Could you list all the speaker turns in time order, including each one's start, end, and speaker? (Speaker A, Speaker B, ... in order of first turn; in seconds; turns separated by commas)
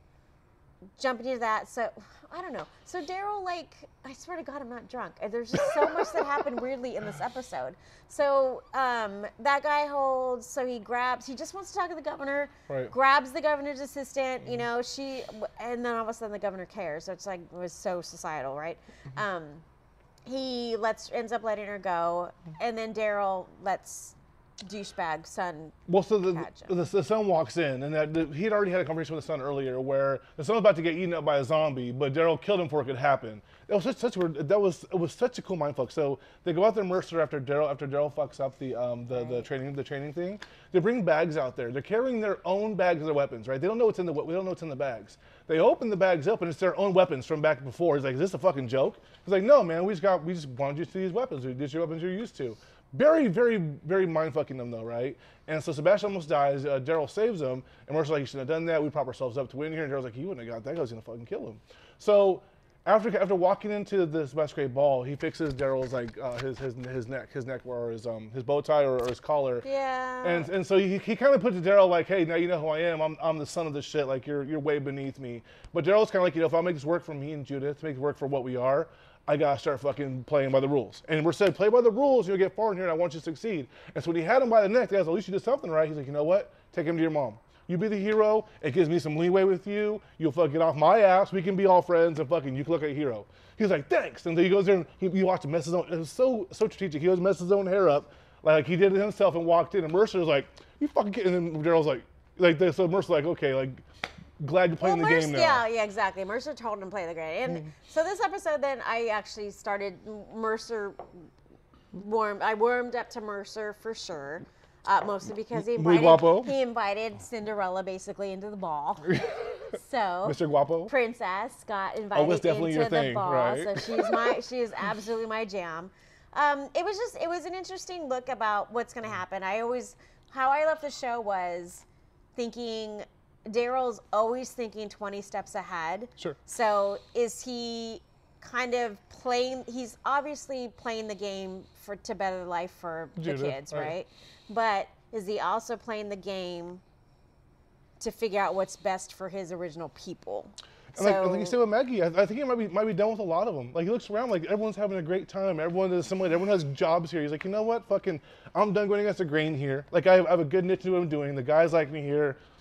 Speaker A: 1.0-19.6, Speaker A: 20.2-26.7, Speaker B: 25.9-69.6, Speaker A: 39.2-39.4, Speaker A: 69.6-70.5, Speaker B: 70.2-103.8, Speaker B: 104.4-105.6, Speaker A: 104.8-111.0, Speaker A: 111.9-146.8, Speaker B: 115.5-116.5, Speaker B: 120.2-120.9, Speaker B: 122.1-124.4, Speaker B: 143.2-143.9, Speaker A: 148.0-151.6, Speaker B: 150.9-162.4